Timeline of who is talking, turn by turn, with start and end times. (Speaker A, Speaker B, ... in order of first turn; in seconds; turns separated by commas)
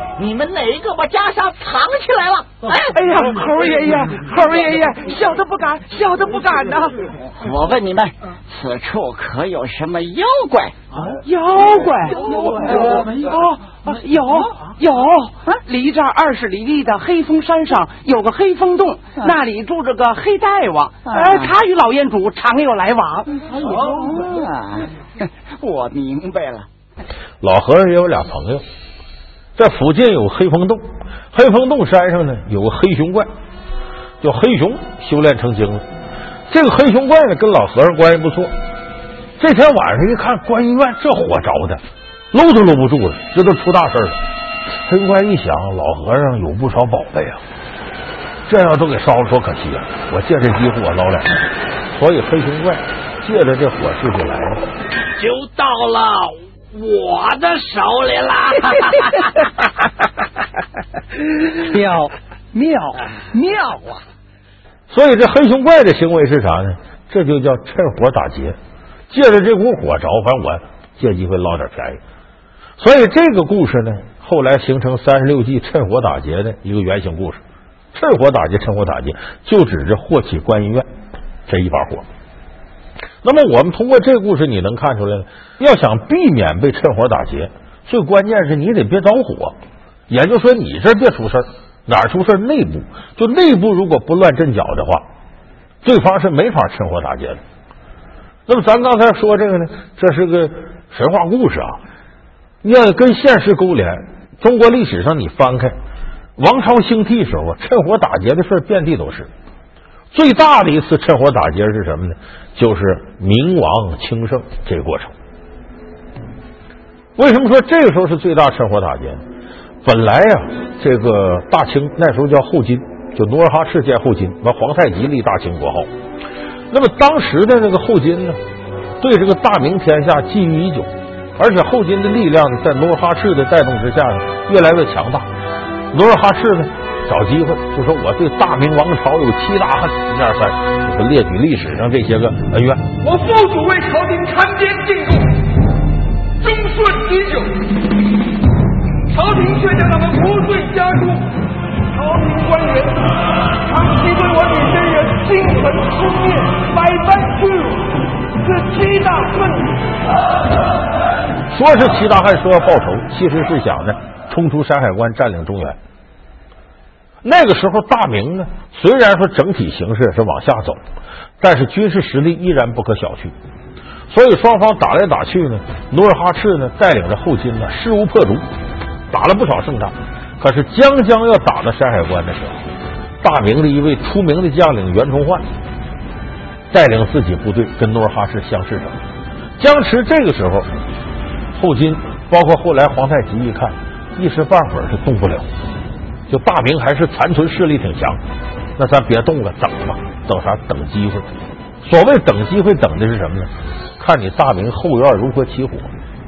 Speaker A: 0.2-2.6, Speaker B: 2.7-7.0, Speaker A: 7.4-10.8, Speaker B: 11.1-23.4, Speaker A: 21.1-21.5, Speaker A: 23.5-26.7, Speaker C: 27.4-28.6, Speaker C: 29.6-33.3, Speaker C: 34.2-35.8, Speaker C: 36.5-38.5, Speaker C: 39.4-41.8, Speaker C: 42.3-44.2, Speaker C: 44.9-47.4, Speaker C: 48.5-51.3, Speaker C: 51.9-54.6, Speaker D: 55.2-58.8, Speaker C: 64.9-68.6, Speaker C: 69.1-72.0, Speaker C: 72.8-77.4, Speaker C: 77.9-80.9, Speaker C: 81.5-82.1, Speaker C: 83.2-89.6, Speaker C: 90.1-95.0, Speaker C: 95.8-97.4, Speaker C: 98.5-101.8, Speaker C: 102.6-105.8, Speaker C: 106.4-109.3, Speaker C: 110.1-115.1, Speaker C: 117.2-119.2, Speaker C: 119.8-125.9, Speaker C: 126.7-128.4, Speaker C: 129.0-135.3, Speaker C: 135.9-142.9, Speaker E: 143.0-145.4, Speaker E: 146.4-147.7, Speaker E: 149.1-151.3, Speaker E: 151.9-159.9, Speaker C: 161.5-165.8, Speaker C: 167.2-170.8, Speaker C: 171.4-173.3, Speaker C: 174.1-178.4, Speaker C: 179.1-182.6, Speaker C: 183.2-185.4, Speaker C: 186.7-188.9, Speaker C: 189.6-190.7, Speaker C: 191.6-195.5, Speaker C: 196.3-198.2, Speaker C: 198.8-201.3, Speaker C: 201.8-205.9